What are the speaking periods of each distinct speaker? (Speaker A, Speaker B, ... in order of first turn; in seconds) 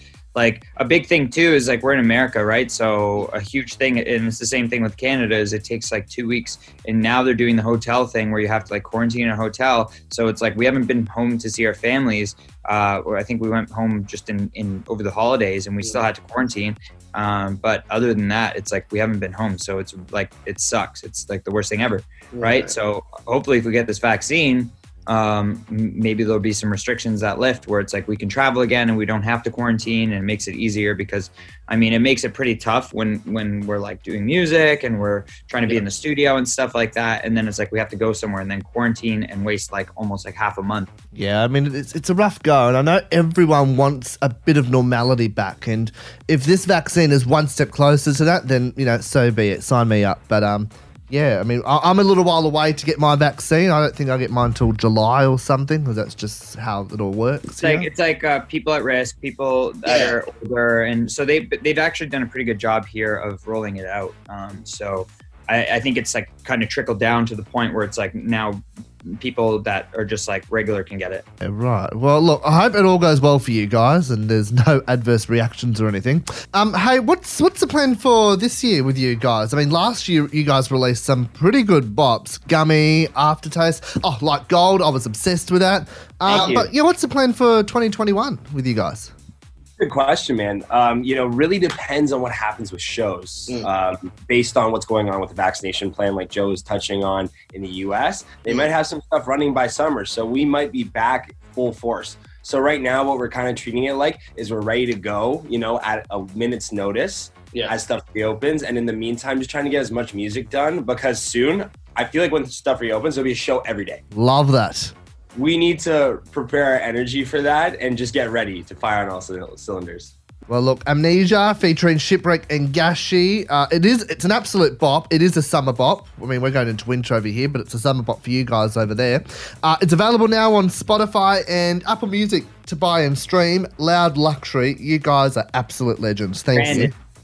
Speaker A: 0.3-40.9, 57.6-71.2, 136.5-136.9
Speaker B: 41.1-57.9, 71.4-89.1, 114.1-114.9, 120.5-136.9
Speaker C: 59.9-60.1, 86.2-86.7, 89.8-114.0, 115.3-120.1